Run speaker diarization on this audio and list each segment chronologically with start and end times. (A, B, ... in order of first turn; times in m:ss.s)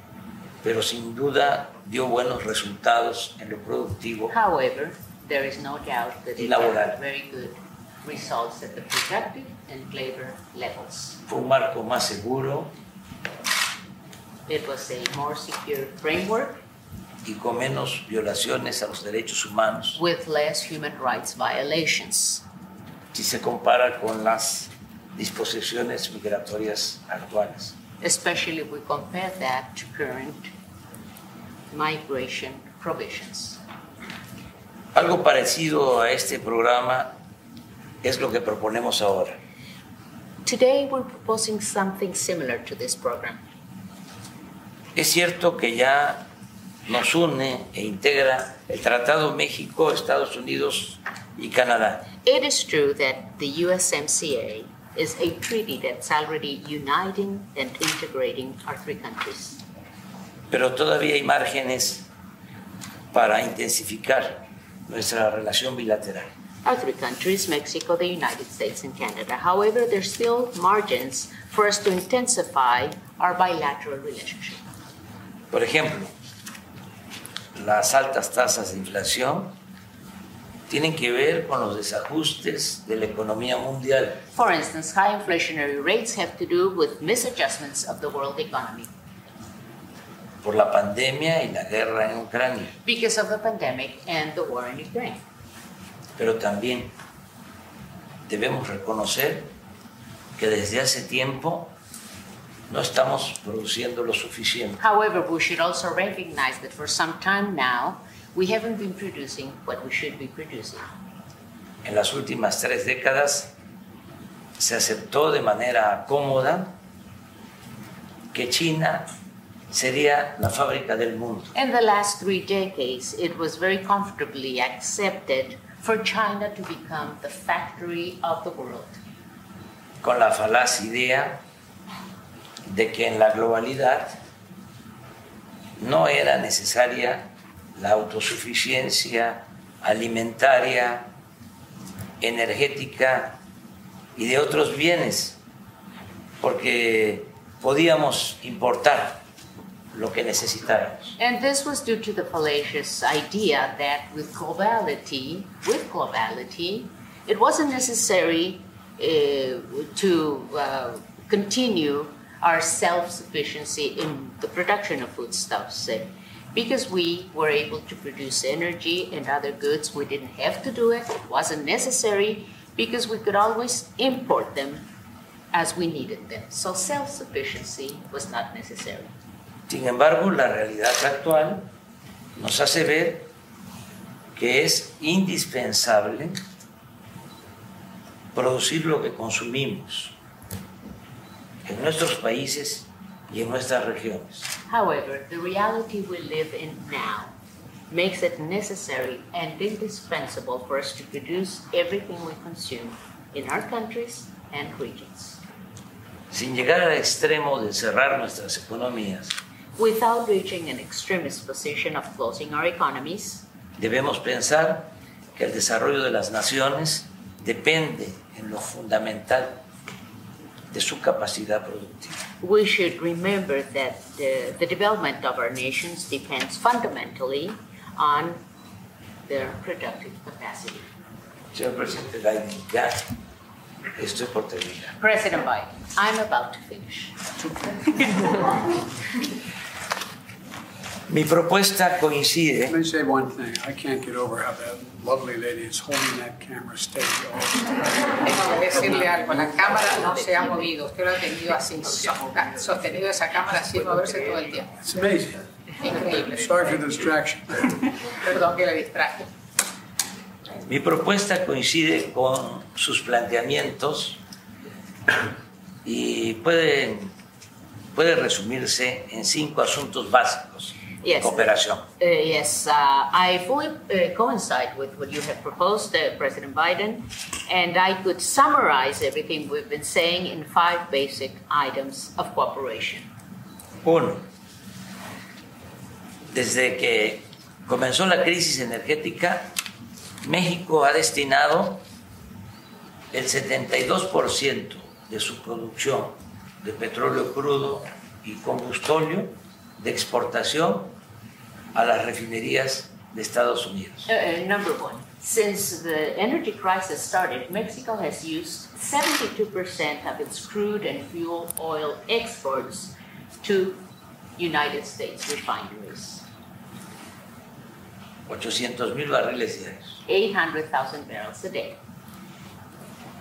0:00.6-0:04.3 A
0:04.3-0:11.2 B
0:06.4-0:07.0 A
0:11.2-0:12.7 A
0:14.5-0:16.6 B
0:17.2-0:20.0 A
0:19.9-0:22.4 B
0:23.1-0:27.7 A
0:28.0-0:30.5 B
0:31.7-0:33.6 B
0:34.9-0:37.1 A
0:38.0-0:39.4 A
0:40.4-0:43.4 B
0:44.9-0:46.2 A
0:46.8-0:52.1 A
0:52.2-0:59.6 B
1:00.5-1:02.0 A
1:03.1-1:06.3 A
1:06.6-1:14.6 B
1:15.5-1:16.1 A
1:17.5-1:19.5 A
1:20.7-1:24.2 A
1:24.3-1:28.9 B
1:30.4-1:32.7 A
1:32.8-1:35.2 B
1:36.2-1:36.9 A
1:38.3-1:39.5 A
1:40.4-1:41.7 A
1:42.7-1:44.8 A
1:44.8-1:50.9 B
1:51.8-1:53.5 A
1:54.6-1:56.7 A
1:58.3-1:59.1 A
1:59.7-2:01.5 A
2:01.5-2:09.0 B
2:10.0-2:11.4 A
2:12.6-2:14.2 A
2:15.8-2:21.1 A
2:22.2-2:23.4 A
2:24.2-2:25.4 A
2:26.4-2:29.2 A
2:29.9-2:31.2 A
2:31.2-2:54.8 B
2:55.5-2:59.1 B
2:59.7-3:01.7 A
3:02.4-3:03.3 A
3:04.3-3:06.4 A
3:08.3-3:10.1 A
3:11.6-3:14.5 A
3:14.7-3:17.3 B
3:17.9-3:25.4 B
3:26.3-3:29.4 A
3:29.8-3:33.4 B
3:33.8-3:39.6 A
3:40.7-3:42.2 A
3:42.4-3:48.4 B
3:49.3-3:50.8 B
3:51.5-3:53.1 A
3:54.0-3:54.9 A
3:55.0-3:57.2 B
3:57.4-3:58.5 C
4:01.1-4:02.7 A
4:02.7-4:08.2 C
4:08.2-4:14.7 D
4:14.8-4:15.4 C
4:15.8-4:16.7 D
4:16.4-4:17.9 C
4:18.1-4:19.3 D
4:20.6-4:24.2 A
4:25.8-4:27.1 A
4:27.9-4:31.8 A
4:31.0-4:43.1 B
4:43.8-4:44.2 A
4:46.3-4:49.5 A
4:50.2-4:51.8 A
4:53.1-5:00.9 A
5:01.7-5:04.1 A
5:04.1-5:13.8 B
5:14.4-5:16.2 B
5:18.3-5:20.0 A
5:20.0-5:21.8 B